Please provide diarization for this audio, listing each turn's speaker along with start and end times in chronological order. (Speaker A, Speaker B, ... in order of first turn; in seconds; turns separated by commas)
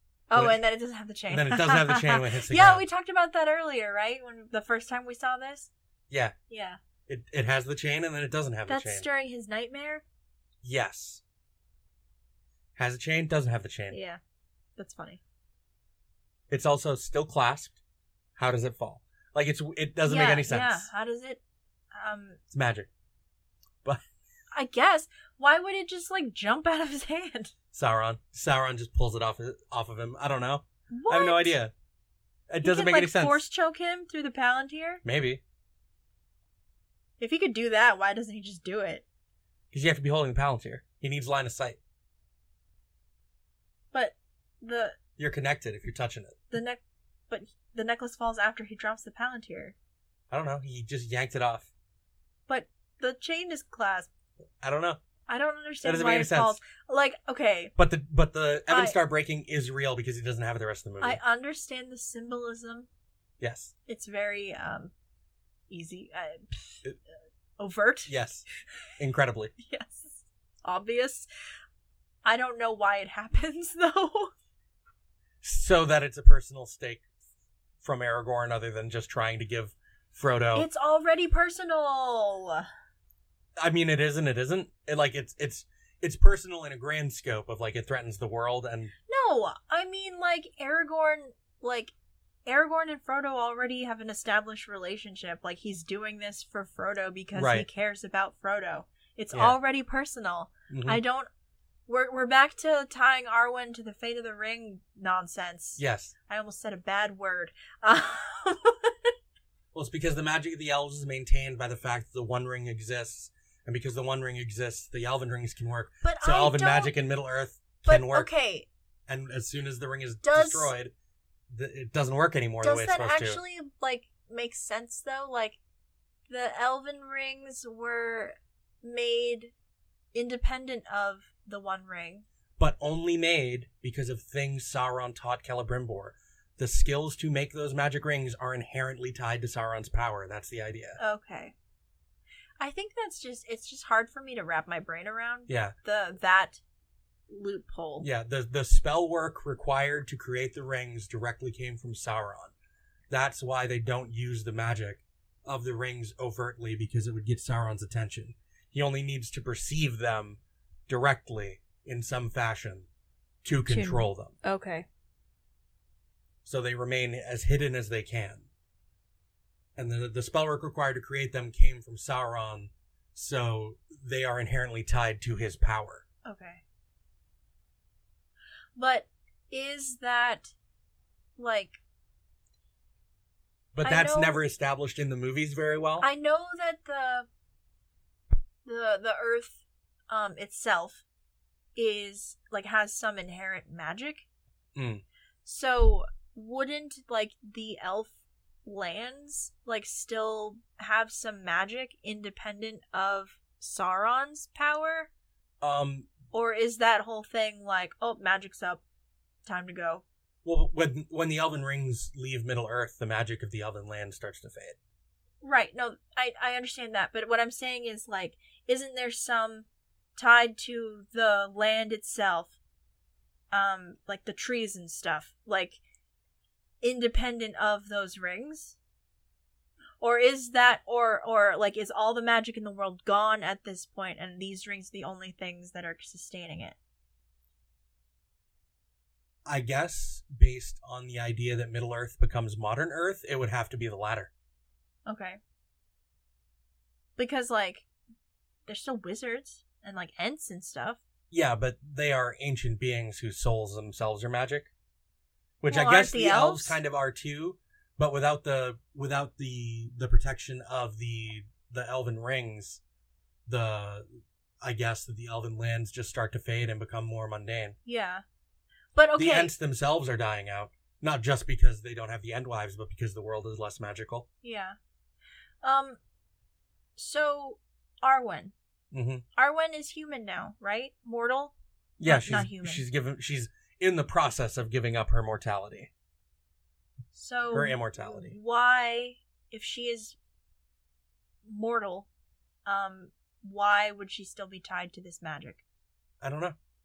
Speaker A: 0.3-5.7, Speaker B: 0.3-0.6, Speaker B: 1.3-2.8, Speaker B: 6.1-6.3, Speaker A: 6.5-6.8, Speaker B: 7.1-9.1, Speaker A: 8.7-10.0, Speaker B: 10.6-11.2, Speaker B: 12.8-14.0, Speaker A: 13.9-14.2, Speaker A: 14.8-15.2, Speaker B: 16.5-17.8, Speaker B: 18.4-20.9, Speaker A: 20.1-21.4, Speaker A: 21.9-22.4, Speaker B: 22.5-22.9, Speaker A: 24.5-27.5, Speaker B: 27.7-31.7, Speaker A: 30.9-31.6, Speaker B: 32.5-33.4, Speaker A: 32.6-35.0, Speaker B: 35.0-35.4, Speaker A: 37.2-39.0, Speaker B: 39.7-41.8, Speaker A: 43.9-45.0, Speaker B: 45.2-46.4, Speaker A: 46.5-49.8, Speaker B: 50.3-51.7, Speaker A: 52.5-54.1, Speaker B: 54.6-55.0, Speaker A: 55.3-57.7, Speaker B: 55.8-56.6, Speaker B: 57.8-61.2, Speaker A: 58.7-59.0, Speaker A: 61.0-62.9, Speaker B: 63.4-63.7, Speaker A: 63.9-64.9, Speaker A: 65.7-66.8, Speaker A: 67.6-68.1, Speaker B: 68.1-68.5, Speaker B: 69.0-69.5, Speaker A: 69.6-71.3, Speaker A: 72.2-74.3, Speaker B: 75.4-77.0, Speaker B: 77.8-80.7, Speaker A: 80.5-82.7, Speaker B: 83.6-88.9, Speaker A: 89.1-91.9, Speaker A: 92.5-101.3, Speaker B: 97.3-97.7, Speaker B: 100.7-101.0, Speaker A: 101.9-109.1, Speaker B: 105.8-106.1, Speaker B: 109.7-118.3, Speaker A: 116.0-117.0, Speaker A: 117.9-118.7, Speaker B: 119.1-120.9, Speaker A: 120.2-120.7, Speaker B: 121.5-123.4, Speaker A: 122.6-125.6, Speaker A: 126.3-129.5, Speaker A: 130.1-132.2, Speaker B: 132.6-141.0, Speaker A: 141.0-141.6, Speaker A: 142.6-146.6, Speaker B: 145.5-145.8, Speaker A: 147.3-148.1, Speaker B: 148.0-152.5, Speaker B: 153.1-162.9, Speaker B: 163.4-164.3, Speaker A: 163.7-164.9, Speaker B: 166.4-168.5, Speaker B: 169.8-176.0, Speaker A: 176.2-176.6, Speaker A: 178.8-180.5, Speaker A: 181.4-181.8, Speaker B: 183.8-186.1, Speaker A: 183.8-184.4, Speaker A: 186.0-187.3, Speaker A: 188.7-191.0, Speaker A: 191.8-194.2, Speaker B: 194.8-195.0, Speaker A: 195.4-205.1, Speaker B: 205.6-206.1, Speaker A: 206.3-208.8, Speaker A: 209.4-210.0, Speaker B: 210.4-214.8, Speaker A: 215.4-222.6, Speaker A: 223.5-225.8, Speaker A: 226.8-228.8, Speaker A: 230.0-236.8, Speaker B: 239.4-244.3, Speaker A: 245.1-245.4, Speaker A: 247.2-247.9, Speaker A: 248.7-251.0, Speaker B: 251.3-254.7, Speaker B: 255.6-262.8, Speaker A: 255.7-256.8, Speaker B: 263.5-264.1, Speaker B: 264.6-267.8, Speaker A: 267.9-268.2, Speaker A: 268.9-269.5, Speaker B: 269.2-274.3, Speaker A: 274.4-274.8, Speaker A: 275.6-276.0, Speaker A: 277.0-278.5, Speaker B: 278.9-279.2, Speaker A: 279.4-282.8, Speaker B: 282.0-285.9, Speaker A: 287.1-290.2, Speaker B: 287.5-288.4, Speaker A: 291.4-292.1, Speaker A: 292.7-295.6, Speaker B: 296.2-296.6